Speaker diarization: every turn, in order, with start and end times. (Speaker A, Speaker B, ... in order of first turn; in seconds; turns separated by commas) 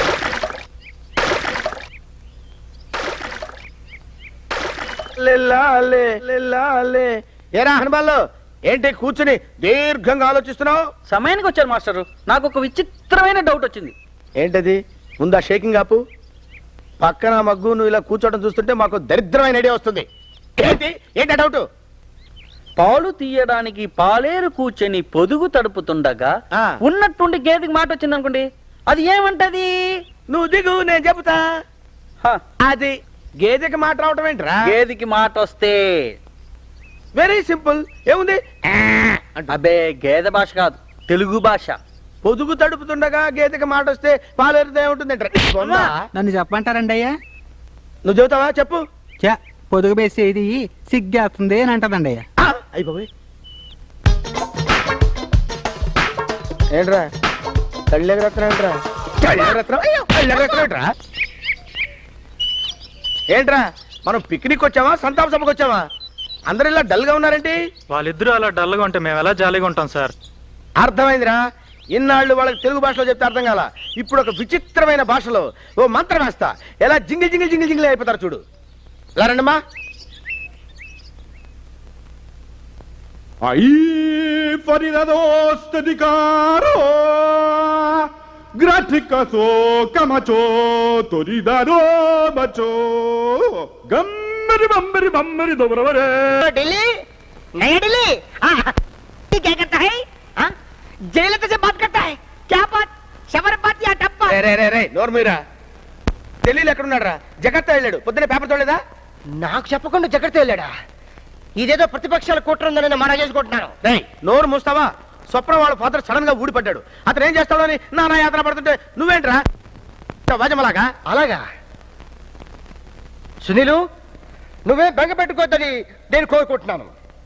Speaker A: 5.2-10.8, Speaker B: 11.1-13.9, Speaker A: 14.4-16.0, Speaker A: 17.0-20.1, Speaker A: 20.6-21.6, Speaker B: 22.8-29.9, Speaker A: 30.3-31.4, Speaker A: 32.6-34.7, Speaker B: 34.6-36.1, Speaker A: 37.1-38.4, Speaker B: 39.5-41.8, Speaker A: 42.2-46.1, Speaker C: 45.6-47.2, Speaker A: 48.0-48.8, Speaker C: 49.2-52.2, Speaker A: 52.4-53.1, Speaker A: 56.7-57.1, Speaker A: 57.9-60.8, Speaker A: 63.3-65.8, Speaker A: 66.5-67.6, Speaker D: 67.9-70.1, Speaker A: 70.8-71.4, Speaker A: 71.9-78.4, Speaker A: 79.2-79.6, Speaker E: 83.4-96.4, Speaker F: 96.4-96.9, Speaker F: 97.6-98.7, Speaker F: 99.3-100.5, Speaker F: 101.1-104.4, Speaker A: 104.3-105.4, Speaker A: 106.4-108.8, Speaker F: 109.4-110.7, Speaker F: 111.6-113.7, Speaker A: 113.8-119.4, Speaker A: 120.3-120.9, Speaker F: 121.0-121.4, Speaker F: 123.4-123.8, Speaker F: 124.7-126.9